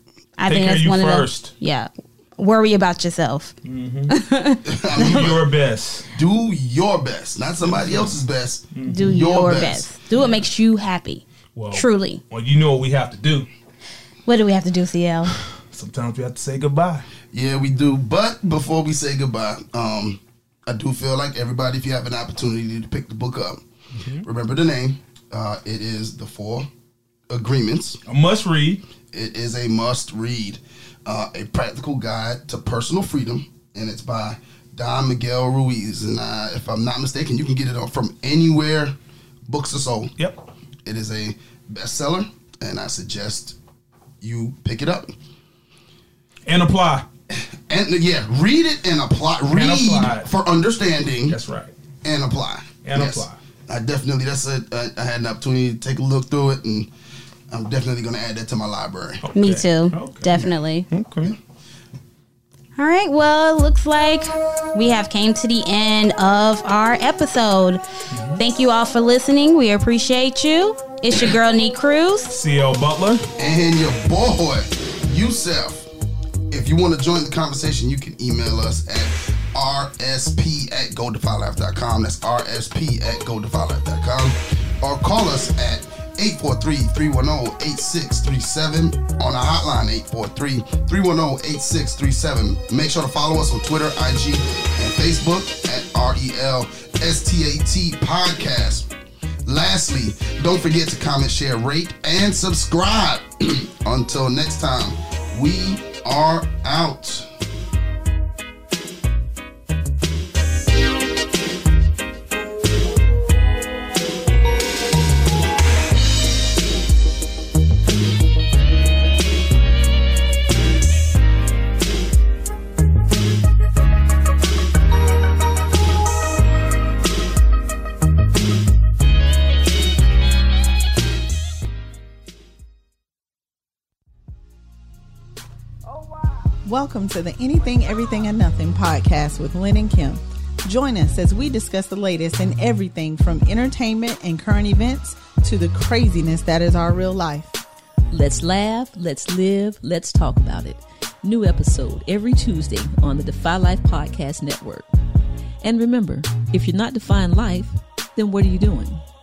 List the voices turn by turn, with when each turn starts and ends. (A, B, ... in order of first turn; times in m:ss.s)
0:00.4-0:03.5 A
0:00.5-0:01.5 B
0:03.6-0:04.1 B
0:04.1-0:05.3 A
0:04.6-0:05.4 C
0:05.0-0:06.1 B
0:06.1-0:09.9 C
0:07.6-0:08.2 B
0:08.7-0:09.1 B
0:08.8-0:12.2 A
0:11.6-0:13.5 B
0:14.3-0:15.4 A
0:15.4-0:17.1 B
0:17.3-0:23.6 C
0:24.0-0:24.2 B
0:24.2-0:26.7 C
0:27.3-0:28.0 C
0:28.1-0:28.8 B
0:29.1-0:38.9 C
0:39.5-0:40.2 C
0:40.8-0:43.6 C
0:44.2-0:45.1 C
0:46.5-0:47.0 B
0:47.3-0:51.4 C
0:49.5-0:50.3 B
0:51.3-0:51.7 B
0:52.0-0:56.9 C
0:52.8-0:53.4 B
0:57.5-0:59.2 C
0:59.2-1:01.4 B
0:59.4-1:00.9 A
1:02.8-1:07.8 A
1:08.1-1:08.4 B
1:08.4-1:12.3 A
1:12.3-1:13.2 B
1:13.4-1:15.9 C
1:16.5-1:38.9 C
1:39.5-1:47.3 C
2:16.6-2:27.6 D
2:28.1-2:34.9 E
2:35.6-2:39.0 E